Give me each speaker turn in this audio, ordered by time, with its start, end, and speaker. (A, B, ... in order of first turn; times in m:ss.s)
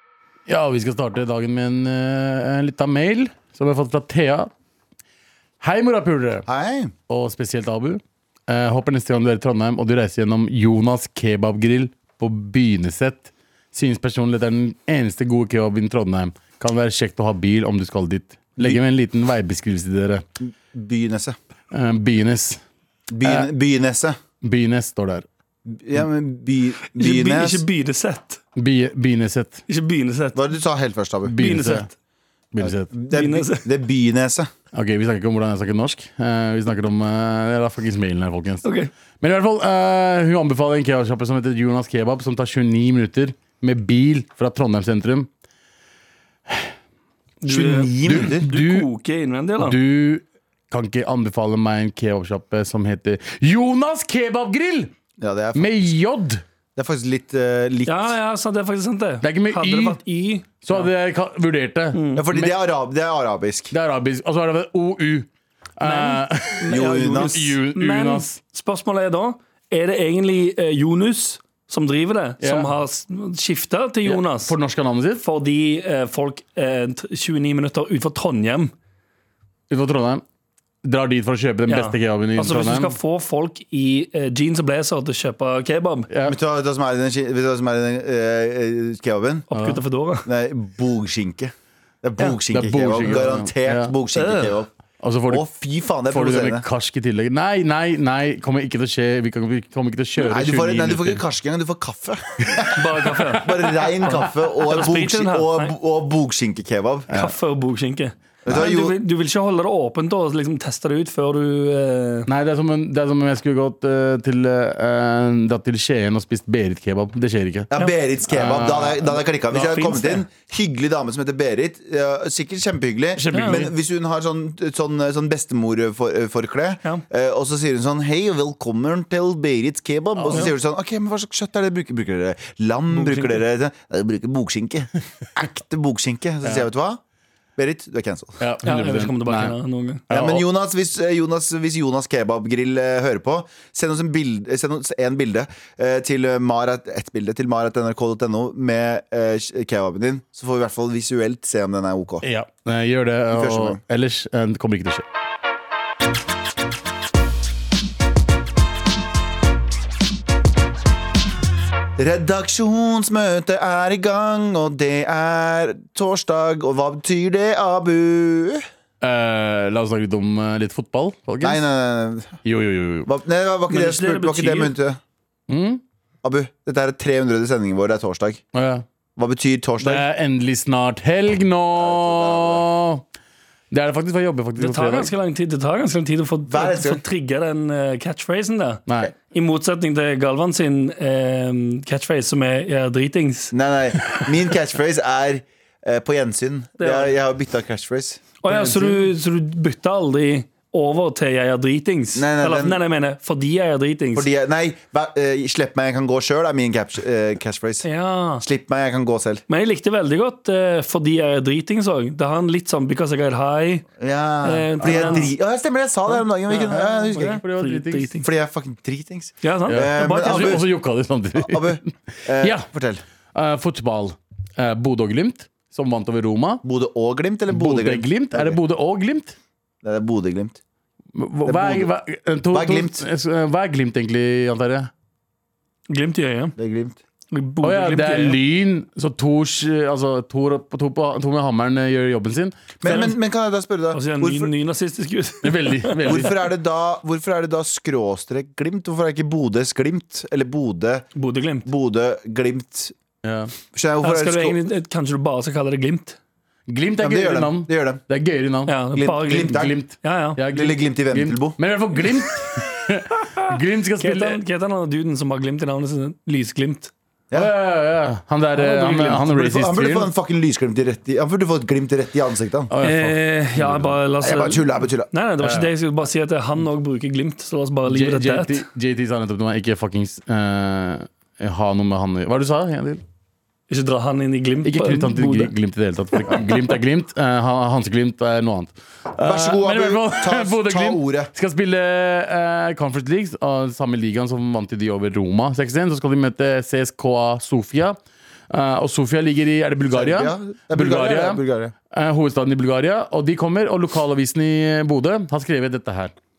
0:00.5-0:04.5 A
0:05.6-0:06.5 A
0:06.5-0:06.9 B
0:07.1-0:20.2 A
0:20.4-0:21.4 B
0:21.7-0:22.6 A
0:23.1-0:24.2 B
0:23.2-0:23.5 A
0:24.4-0:25.3 A
0:25.7-0:27.6 B
0:26.9-0:28.4 C
0:28.6-0:29.6 A
0:29.7-0:30.4 C
0:30.3-0:31.4 B
0:31.3-0:31.9 A
0:31.4-0:31.9 C
0:32.5-0:32.9 A
0:32.6-0:34.5 B
0:33.1-0:33.7 C
0:34.7-0:38.6 A
0:38.6-0:38.9 C
0:39.2-0:45.3 A
0:47.4-0:49.8 C
0:47.5-0:48.5 B
0:48.1-0:48.9 A
0:49.6-0:54.9 A
0:55.2-0:55.9 B
0:55.6-0:56.4 A
0:56.8-0:58.2 B
0:57.9-1:00.9 C
0:59.2-1:00.0 A
1:00.6-1:02.6 A
1:01.9-1:02.2 C
1:02.2-1:03.7 B
1:03.7-1:05.3 A
1:05.8-1:08.3 A
1:05.8-1:14.5 C
1:06.7-1:07.5 B
1:12.4-1:12.7 A
1:14.0-1:15.2 A
1:15.2-1:18.7 C
1:19.7-1:20.2 A
1:20.8-1:22.9 A
1:21.7-1:26.1 C
1:26.1-1:26.4 A
1:26.2-1:29.5 B
1:29.5-1:30.3 C
1:29.5-1:29.8 A
1:30.3-1:34.7 B
1:32.2-1:33.9 A
1:34.2-1:34.6 C
1:35.0-1:35.5 A
1:35.3-1:36.7 B
1:36.1-1:41.2 A
1:40.2-1:47.1 B
1:42.5-1:44.0 A
1:42.8-1:45.8 C
1:47.1-1:52.3 C
1:48.4-1:49.0 B
1:52.3-1:57.7 A
1:57.7-2:17.0 B
1:58.3-1:59.2 A
1:59.5-2:00.2 C
2:03.2-2:03.7 A
2:03.3-2:03.7 C
2:10.2-2:10.5 A
2:12.9-2:13.4 C
2:17.6-2:18.4 B
2:18.4-2:19.5 A
2:18.6-2:20.0 C
2:20.1-2:20.5 A
2:20.1-2:32.2 B
2:32.2-2:35.0 A
2:33.3-2:33.8 B
2:42.0-2:48.6 B
2:49.0-2:51.6 A
2:51.4-2:52.4 B
2:52.4-2:53.1 A
2:53.0-2:55.0 B
2:53.7-2:54.8 C
2:55.5-2:55.8 A
2:56.2-2:58.4 B
2:58.5-2:58.8 A
2:59.2-3:00.0 B
2:59.8-3:03.0 A
3:01.7-3:02.7 B
3:03.7-3:05.1 A
3:04.6-3:14.3 C
3:06.5-3:07.0 B
3:08.9-3:09.1 A
3:13.5-3:18.2 B
3:16.8-3:17.2 C
3:18.4-3:24.3 C
3:18.5-3:19.1 A
3:22.2-3:22.8 B
3:24.2-3:27.9 B
3:27.8-3:28.4 C
3:28.4-3:29.4 B
3:29.5-3:33.9 C
3:34.0-3:37.4 B
3:34.4-3:35.3 C
3:34.8-3:35.2 A
3:36.5-3:38.3 C
3:36.7-3:38.1 A
3:38.2-3:40.7 B
3:39.4-3:40.6 C
3:39.7-3:42.7 A
3:41.4-3:43.0 B
3:43.3-3:46.6 A
3:46.6-3:48.6 B
3:47.5-3:49.4 A
3:49.8-3:50.6 B
3:51.2-3:54.9 A
3:51.5-3:51.9 B
3:52.5-3:53.0 B
3:55.9-3:56.6 C
3:56.6-3:57.0 B
3:57.3-3:58.4 C
3:57.6-4:03.1 A
4:02.8-4:04.5 B
4:03.9-4:06.2 C
4:05.4-4:06.4 A
4:06.0-4:11.1 B
4:11.2-4:11.7 C
4:11.6-4:13.0 B
4:13.2-4:13.5 A
4:13.7-4:14.6 B
4:14.0-4:16.2 C
4:16.7-4:24.4 A
4:17.0-4:18.0 B
4:18.7-4:20.4 C
4:19.0-4:19.8 B
4:20.5-4:21.6 B
4:24.0-4:26.9 C
4:27.3-4:30.1 A
4:28.6-4:29.2 C
4:28.9-4:32.7 B
4:32.7-4:34.0 A
4:32.8-4:38.6 C
4:34.2-4:35.1 B
4:35.4-4:35.7 A
4:37.9-4:43.0 A
4:43.7-4:45.5 C
4:44.6-4:58.0 A
4:46.3-4:46.5 C
4:49.2-4:51.3 B
4:58.5-5:06.1 A
4:59.9-5:01.7 B